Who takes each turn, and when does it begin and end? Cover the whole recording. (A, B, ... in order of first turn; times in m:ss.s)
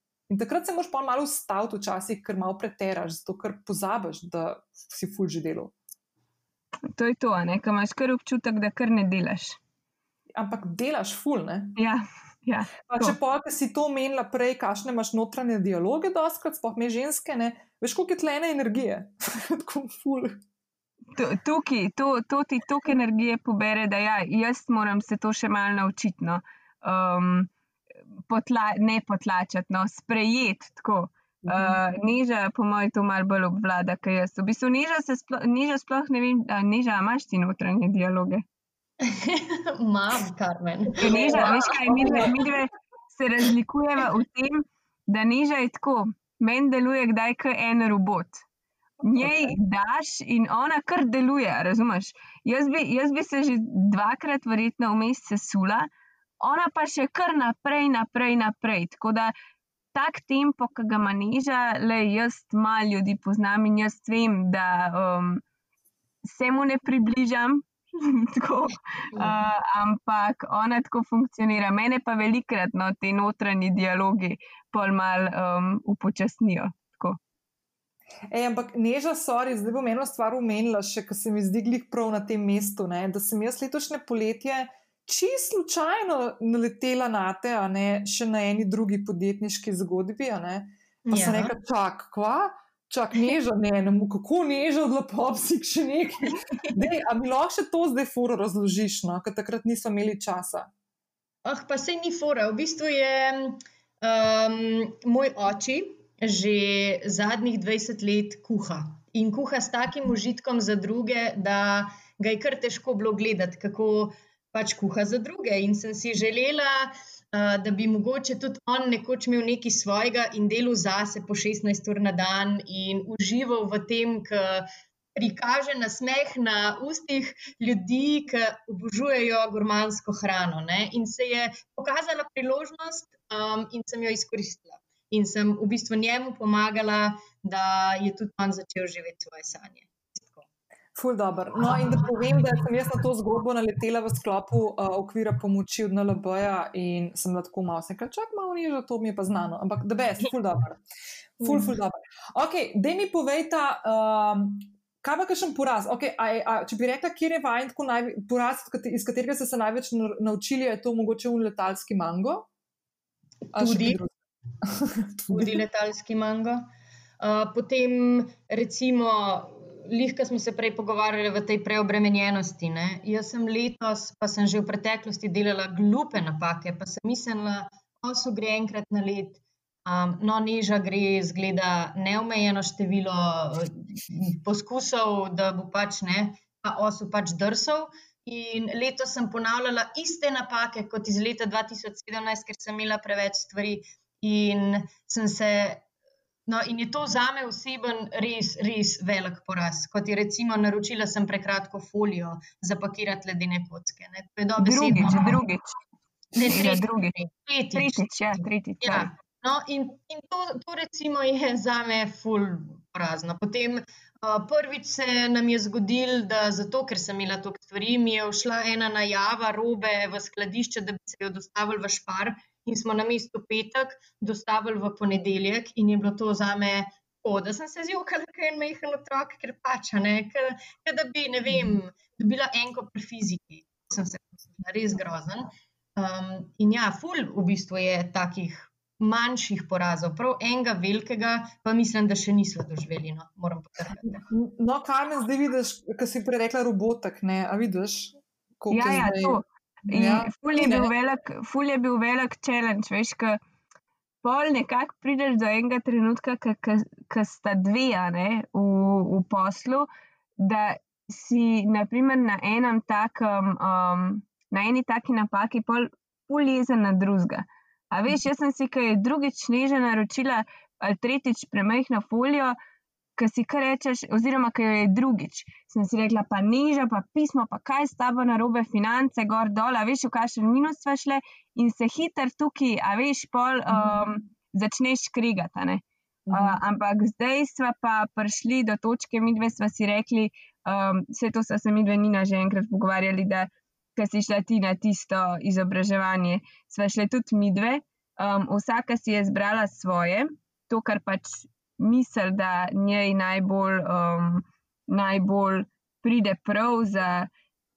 0:00.3-0:05.7 A
0:06.9-0:09.6 B
0:10.4-0:11.8 A
0:11.8-0:13.2 B
0:12.9-0:20.4 A
0:21.2-0:27.5 B
0:28.3-0:38.4 B
0:31.5-0:31.8 A
0:39.0-0:42.4 C
0:41.0-0:48.4 B
0:41.1-0:42.3 A
0:49.0-0:55.9 B
0:49.2-0:49.6 A
0:56.4-0:59.3 B
0:59.9-1:05.4 B
1:06.2-1:17.2 B
1:18.3-1:40.7 A
1:31.1-1:31.5 C
1:41.4-2:20.4 C
2:21.0-2:30.8 A
2:21.6-2:22.6 C
2:31.4-2:42.5 A
2:43.5-2:45.6 A
2:43.6-2:44.0 C
2:45.3-2:46.6 C
2:47.2-3:15.9 C
3:16.5-3:25.4 C
3:24.6-3:25.8 B
3:26.4-4:04.2 C
3:26.5-3:27.2 B
3:27.7-3:29.1 B
3:51.5-3:51.8 A
4:04.1-4:10.9 A
4:08.7-4:13.4 B
4:14.2-4:32.6 B
4:33.2-5:07.3 B
4:43.7-4:44.0 A
4:46.3-4:46.6 A